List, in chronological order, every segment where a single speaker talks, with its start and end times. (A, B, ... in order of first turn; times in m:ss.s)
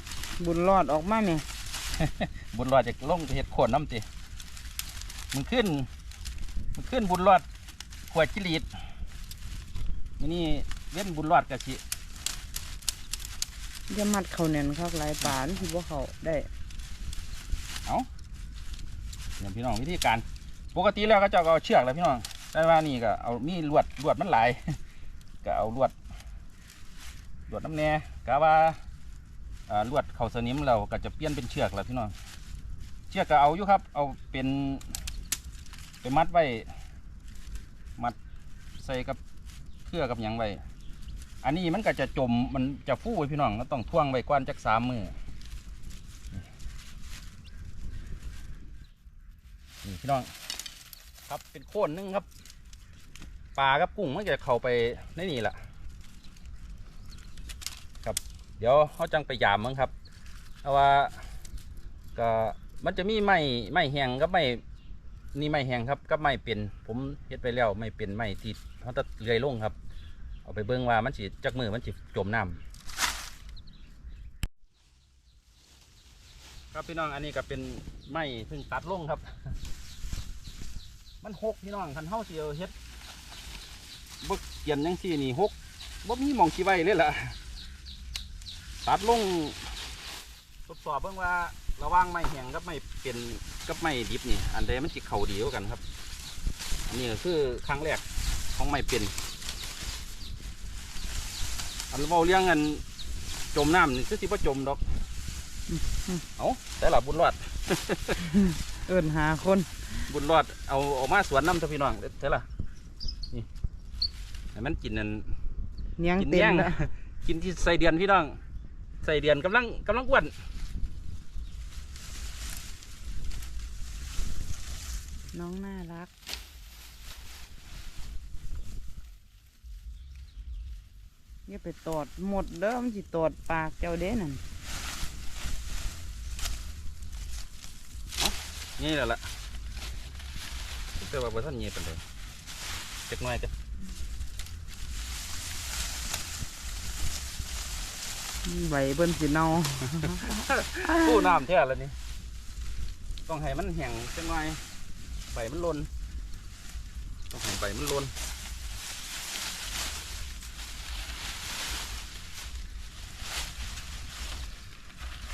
0:00.4-0:01.4 A
0:02.0-0:04.1 B
0:05.3-0:05.9 B
0:06.8-0:07.5 B
0:08.1-0:08.7 B
0:10.2-0:11.8 B
0:13.9-0:16.5 A
0:19.4-0:24.8 B
0:25.4-0:26.0 B
0:27.5-0:28.8 B
0:29.7-0:32.1 B
0:33.1-0:34.8 B
0:36.0-0:36.7 B
0:38.8-0:39.2 B
0:39.8-0:40.6 B
0:41.4-0:45.2 B
0:49.8-0:50.3 B
0:51.3-0:52.3 B
0:53.6-0:55.6 B
0:58.0-0:59.9 B
1:00.6-1:01.3 B
1:02.2-1:04.6 B
1:05.3-1:09.8 B
1:10.4-1:12.6 B
1:16.7-1:19.2 B
1:21.2-1:22.7 B
1:24.2-1:27.4 B
1:28.8-1:29.6 B
1:30.7-1:35.8 B
1:36.9-1:39.2 B
1:41.9-1:42.8 B
1:43.5-1:44.8 B
1:45.7-1:46.2 A
1:46.4-1:48.4 B
1:48.3-1:49.7 A
1:50.0-1:52.5 B
1:54.5-1:55.3 B
1:56.0-1:56.8 A
1:56.2-1:58.4 B
1:59.0-2:00.4 B
2:05.3-2:06.1 A
2:11.5-2:14.4 A
2:18.2-2:19.3 B
2:21.0-2:22.0 B
2:23.1-2:23.5 B
2:28.4-2:31.4 A
2:30.0-2:32.0 B
2:33.3-2:34.6 B
2:35.3-2:35.9 B
2:37.3-2:38.1 B